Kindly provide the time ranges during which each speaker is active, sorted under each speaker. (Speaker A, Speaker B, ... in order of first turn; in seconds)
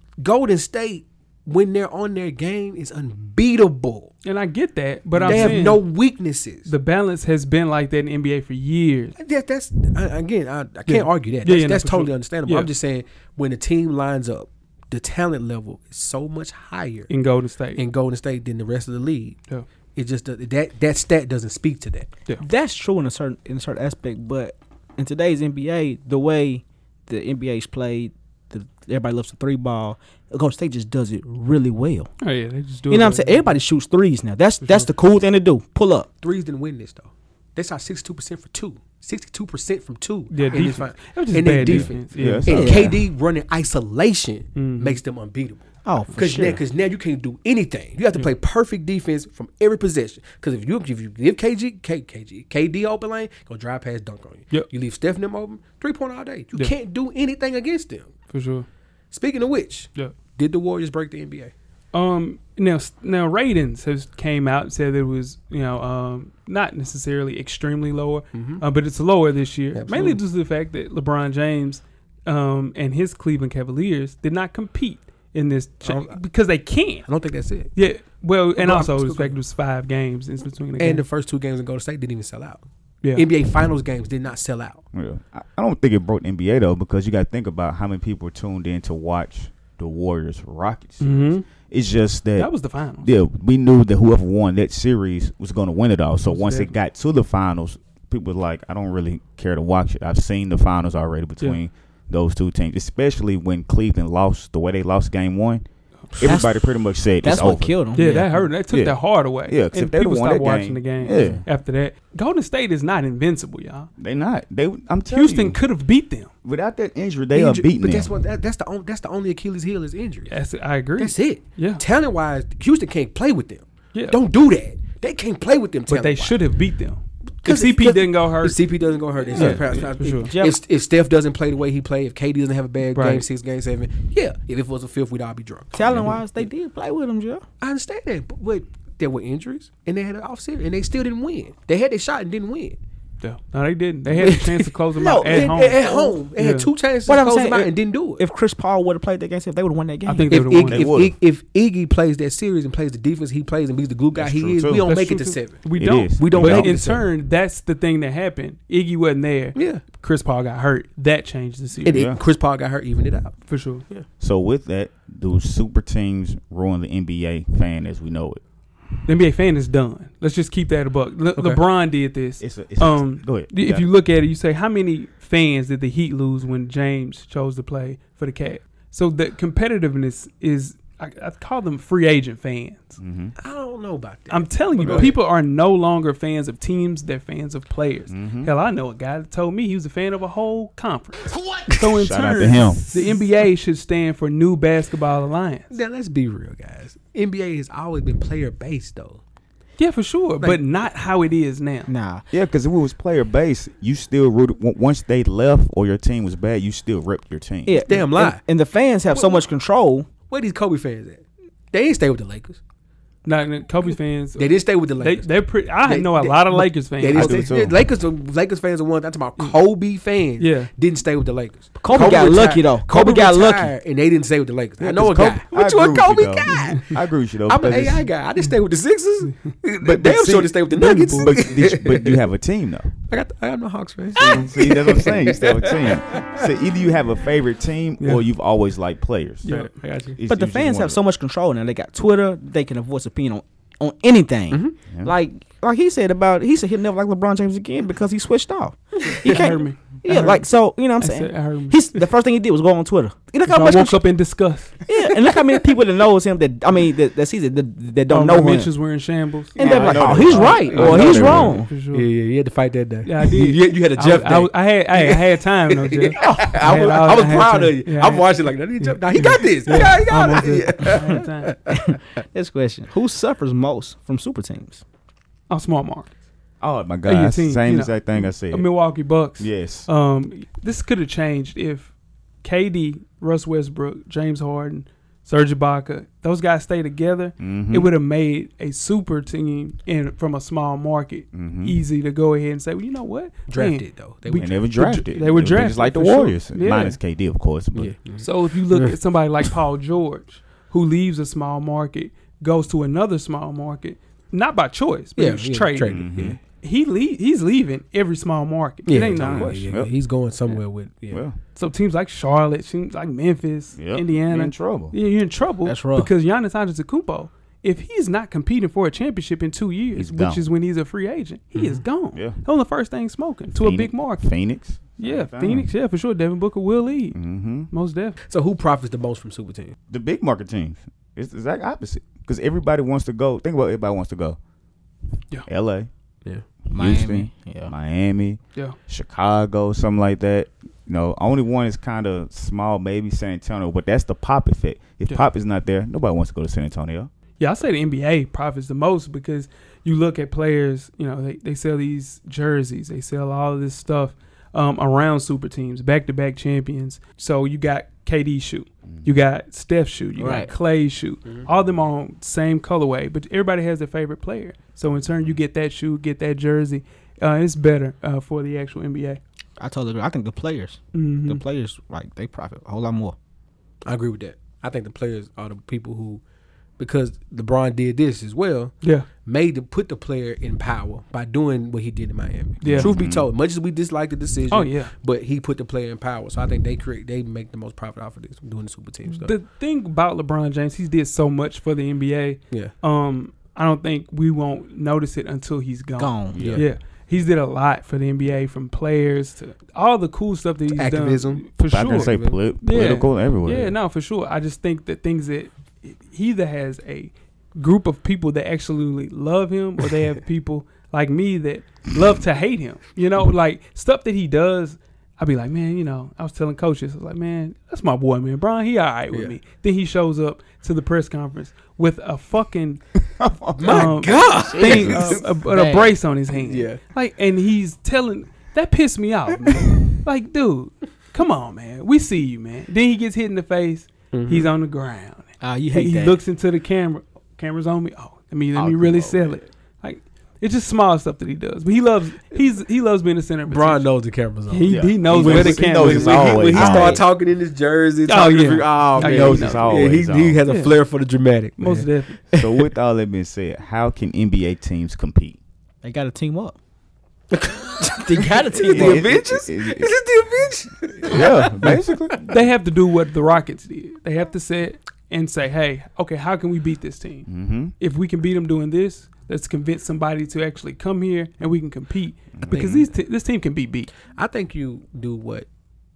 Speaker A: 0.2-4.1, 5.2-6.7, 9.2-17.1, 17.8-19.4, 19.9-22.1, 36.2-58.1, 59.1-61.5, 68.3-68.6, 69.7-70.2, 75.8-76.2, 77.1-77.7, 78.6-79.4, 80.8-82.6, 83.2-84.8, 117.3-120.4, 121.0-126.4, 127.4-136.1, 137.6-142.8, 144.1-144.7, 145.2-148.2, 150.3-157.1, 159.6-159.8, 161.8-164.1, 171.4-171.6, 183.4-185.2, 195.7-199.2, 207.9-208.4, 209.1-209.4, 210.3-212.6, 214.4-215.3, 215.8-226.9, 227.5-232.2, 233.1-236.5, 239.5-240.2, 259.6-272.0, 293.5-294.7, 297.7-298.9, 305.2-306.4, 308.9-311.2, 321.5-321.8, 328.3-329.8, 373.9-376.2, 376.8-389.3, 396.4-396.6, 400.7-402.3, 419.1-419.4, 423.6-425.3, 426.3-426.8, 434.1-434.5, 443.5-452.7, 457.3-462.2, 472.5-472.9, 474.1-475.5
Speaker B: 4.2-5.9, 6.7-9.2, 10.9-12.7, 17.1-17.9, 32.2-33.6, 34.6-34.9, 40.3-42.7, 44.6-45.0, 58.3-58.7, 61.9-77.1, 77.8-81.0, 91.0-91.5, 92.4-93.1, 96.3-96.7, 108.0-113.9, 115.1-116.3, 120.3-121.8, 125.9-128.6, 129.3-130.3, 132.9-133.2, 143.2-146.7, 150.1-150.9, 154.8-162.0, 163.5-163.8, 169.1-183.0, 184.3-195.7, 199.8-201.9, 213.2-217.4, 220.4-220.7, 226.5-226.8, 230.7-231.4, 238.0-238.3, 239.4-239.7, 249.3-250.5, 251.0-252.0, 253.5-254.9, 258.1-262.1, 263.1-268.3, 268.8-271.6, 275.5-276.1, 277.1-281.9, 282.4-297.0, 298.2-306.1, 306.6-309.7, 311.6-324.3, 325.0-328.2, 347.4-369.2, 370.9-371.4, 378.8-379.1, 382.6-382.9, 384.5-384.9, 389.1-422.8, 423.7-443.9, 444.5-447.0, 448.1-449.7, 450.4-450.8, 451.6-452.2, 462.3-467.3, 467.8-473.9
Speaker C: 22.4-32.1, 32.9-36.1, 42.5-43.0, 45.9-46.6, 106.2-108.5, 129.3-129.6, 130.2-130.6, 135.8-137.4, 145.0-146.2, 147.1-150.4, 201.9-202.2, 207.7-210.1, 221.8-223.7, 240.3-254.1, 254.9-258.7, 259.6-261.7, 271.7-274.8, 315.6-316.1, 336.7-337.7, 360.2-360.5, 369.6-373.1, 396.0-396.4, 425.3-426.0, 435.4-436.2, 455.8-456.6, 457.9-459.2
Speaker D: 41.6-42.9, 84.9-107.8, 108.7-111.5, 114.0-115.6, 116.4-118.1, 135.9-136.2, 150.7-151.2, 154.1-154.9, 155.8-156.9, 161.9-162.2, 164.2-168.4, 172.4-173.9, 183.0-183.3, 184.8-185.1, 188.1-188.5, 191.8-192.9, 202.3-207.8, 217.1-217.8, 224.8-228.1, 229.8-232.9, 234.2-239.5, 240.1-241.0, 259.6-261.6, 276.6-278.7, 279.4-279.9, 287.4-287.9, 291.3-291.8, 294.4-297.9, 305.8-306.4, 308.9-309.9, 310.5-311.4, 313.8-314.9, 320.0-320.4, 322.1-322.4, 323.5-325.7, 327.1-327.7, 329.9-334.4, 335.5-335.9, 336.7-347.1, 365.1-365.4, 382.7-383.3, 396.3-396.6, 401.7-403.8, 423.0-425.2, 438.5-439.5, 444.7-447.0, 448.2-450.4, 452.3-455.4, 458.6-459.9, 461.0-462.3, 467.3-467.7, 472.3-472.7